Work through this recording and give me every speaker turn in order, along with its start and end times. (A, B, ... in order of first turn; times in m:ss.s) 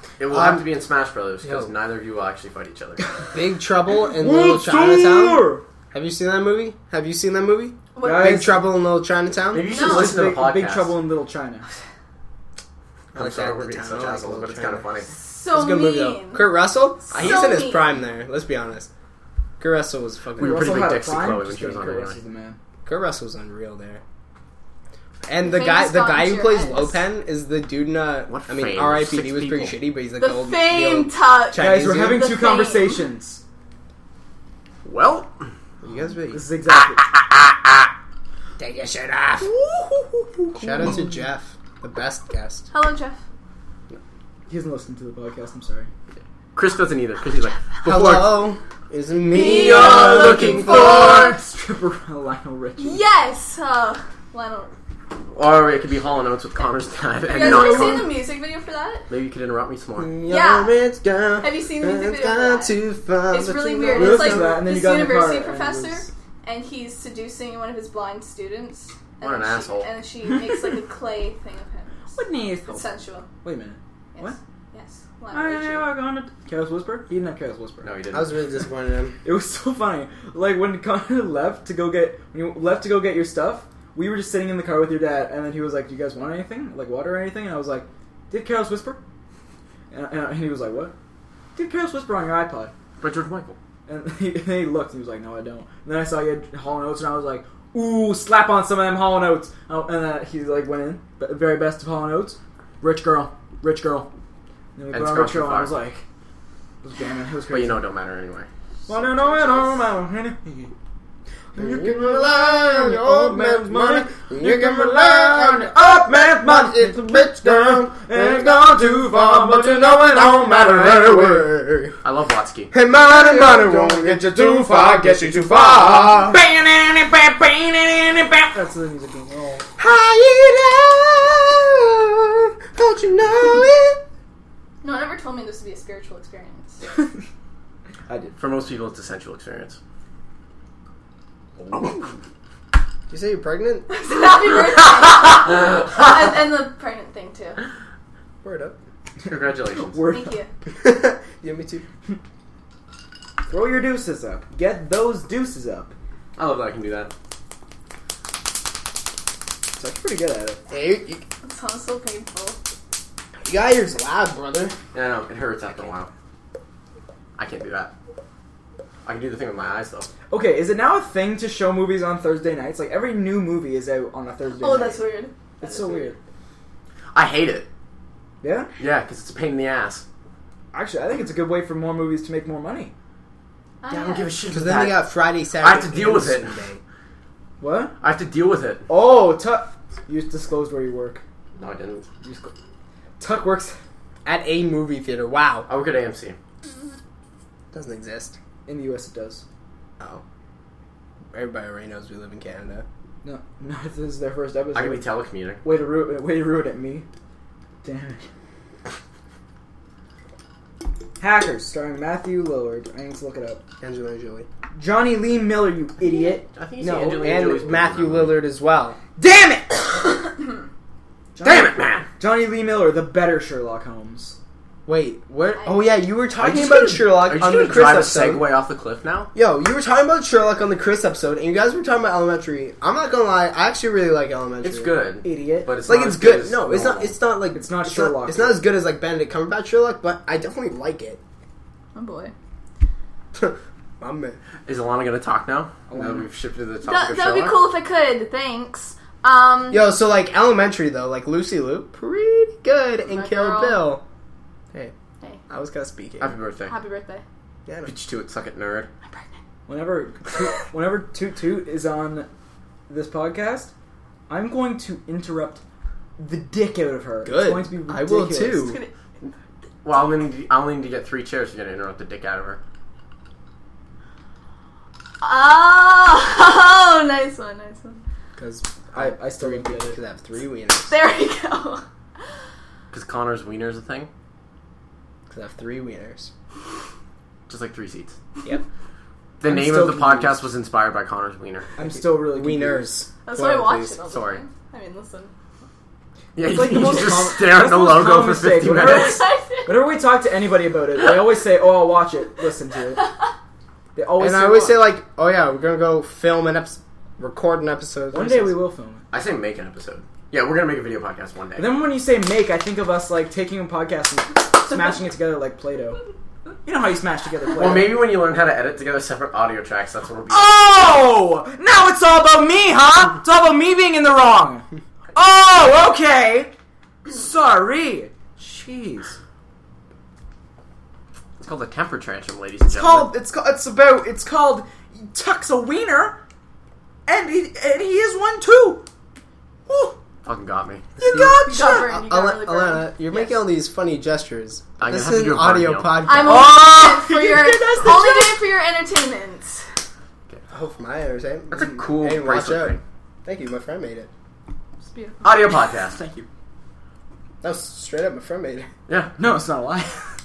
0:00.2-0:03.1 A
0:00.3-0:00.7 B
0:01.4-0:01.7 B
0:03.3-0:09.7 B
0:04.1-0:05.6 C
0:08.0-0:08.5 D
0:08.0-0:08.6 C
0:09.5-0:11.0 A
0:09.7-0:10.2 D
0:09.7-0:11.7 C
0:13.1-0:14.9 B
0:13.1-0:15.1 A
0:15.1-0:16.5 D
0:15.5-0:18.9 B
0:17.1-0:17.9 D
0:19.6-0:21.0 B
0:20.4-0:22.2 A
0:20.4-0:22.6 C
0:22.9-0:24.0 B
0:25.2-0:32.2 B
0:25.4-0:27.0 D
0:28.3-0:29.8 A
0:30.2-0:33.0 D
0:31.6-0:33.4 C
0:34.8-0:35.4 A
0:35.8-0:36.4 B
0:36.3-0:37.1 C
0:36.7-0:37.9 A
0:38.6-0:39.5 B
0:39.4-0:41.2 C
0:40.6-0:42.7 B
0:42.7-0:43.2 D
0:44.5-0:45.9 C
0:46.6-0:48.4 A
0:47.8-0:51.3 B
0:49.3-0:51.4 D
0:49.3-0:51.3 A
0:49.8-0:53.0 C
0:52.8-0:54.7 D
0:55.3-0:58.2 A
0:57.3-0:59.1 D
0:59.1-1:00.1 A
1:00.0-1:04.6 B
1:00.3-1:00.7 D
1:01.4-1:02.8 D
1:03.3-1:13.3 D
1:03.9-1:06.1 C
1:09.2-1:09.9 A
1:12.1-1:14.4 C
1:14.2-1:15.9 D
1:15.3-1:17.9 C
1:17.8-1:18.4 A
1:18.1-1:19.2 B
1:19.2-1:29.0 C
1:29.9-1:31.0 C
1:31.6-1:32.7 C
1:33.0-1:33.6 A
1:33.9-1:44.1 C
1:44.8-1:46.0 C
1:44.9-1:45.8 A
1:46.8-1:47.9 C
1:47.5-1:48.5 A
1:48.9-1:50.7 C
1:48.9-1:49.8 D
1:51.6-2:01.5 C
1:51.6-2:02.0 B
2:02.0-2:02.7 A
2:02.7-2:06.4 B
2:03.0-2:09.7 C
2:09.8-2:14.0 B
2:14.8-2:17.1 D
2:18.1-2:18.4 C
2:18.4-2:19.8 A
2:23.1-2:23.9 B
2:23.9-2:27.6 D
2:28.4-2:28.8 B
2:29.2-2:30.0 A
2:29.8-2:30.3 C
2:30.1-2:30.5 D
2:30.8-2:31.8 B
2:33.5-2:35.9 C
2:36.4-2:37.1 A
2:39.8-2:40.6 C
2:40.7-2:41.2 B
2:41.4-2:42.6 D
2:43.4-2:44.8 B
2:44.9-2:46.1 A
2:47.4-2:47.9 A
2:49.0-2:50.1 A
2:50.3-2:55.0 C
2:54.6-2:56.1 D
2:55.6-2:56.2 C
2:57.1-2:57.7 A
2:58.4-2:58.7 C
2:58.8-3:00.0 A
3:00.7-3:02.9 C
3:03.8-3:04.3 D
3:03.9-3:05.1 A
3:04.5-3:06.8 B
3:05.6-3:06.5 A
3:07.6-3:07.9 C
3:08.0-3:08.9 A
3:08.9-3:11.2 C
3:11.6-3:12.1 A
3:12.2-3:12.5 C
3:13.2-3:13.8 C
3:14.2-3:15.7 B
3:15.7-3:16.4 A
3:17.7-3:18.4 B
3:18.7-3:19.4 C
3:21.3-3:22.8 B
3:23.2-3:25.1 C
3:24.7-3:25.6 A
3:25.6-3:27.1 C
3:27.8-3:28.3 C
3:31.2-3:33.6 C
3:33.8-3:34.5 B
3:34.8-3:37.5 C
3:36.5-3:38.4 A
3:37.0-3:39.0 B
3:39.2-3:40.2 C
3:41.4-3:44.4 C
3:41.4-3:42.1 A
3:44.9-3:48.5 B
3:45.6-3:46.0 D
3:46.4-3:49.3 A
3:49.3-3:54.9 B
3:54.6-3:57.2 A
3:55.2-3:55.7 C
3:55.8-4:01.2 B
3:57.5-3:58.6 C
4:02.0-4:02.3 D
4:03.3-4:04.4 B
4:04.7-4:07.6 A
4:05.9-4:06.3 C
4:06.9-4:09.9 D
4:09.7-4:14.0 B
4:13.1-4:13.9 D
4:15.5-4:16.4 B
4:16.2-4:16.8 A
4:16.7-4:17.2 D
4:17.7-4:17.9 B
4:17.9-4:18.9 A
4:19.7-4:22.3 C
4:22.9-4:23.7 C
4:24.3-4:25.6 C
4:26.2-4:28.8 C
4:27.2-4:28.8 B
4:28.6-4:28.9 D
4:29.8-4:32.6 A
4:35.2-4:38.0 D
4:38.4-4:40.9 B
4:38.9-4:40.0 C
4:40.9-4:41.8 D
4:42.9-4:44.1 A
4:45.3-4:46.3 B
4:47.5-4:48.2 A
4:49.4-4:51.7 A
4:49.4-4:50.5 C
4:51.8-4:52.9 C
4:51.9-4:54.0 B
4:53.2-4:55.3 D
4:54.1-4:54.4 A
4:56.4-4:59.3 A
4:56.4-5:03.1 C
4:58.8-4:59.8 D
5:04.0-5:04.9 C
5:04.2-5:08.6 B
5:08.1-5:09.0 C
5:09.1-5:11.7 A
5:11.6-5:16.0 C
5:16.6-5:18.0 C
5:17.6-5:20.6 A
5:20.3-5:26.5 C
5:27.1-5:29.2 C
5:31.4-5:33.1 A
5:32.7-5:36.2 C
5:37.1-5:38.8 C
5:39.7-5:40.0 C
5:40.2-5:40.9 A
5:41.0-5:41.9 C
5:41.0-5:46.6 B
5:41.5-5:43.4 D
5:44.8-5:46.0 A
5:46.0-5:49.7 D
5:46.2-5:48.4 C
5:50.5-5:54.1 B
5:51.5-5:52.8 A
5:54.8-5:55.4 D
5:55.2-5:56.0 A
5:55.8-5:56.3 C
5:57.4-5:58.7 B
5:58.9-5:59.2 A
5:59.2-6:00.1 C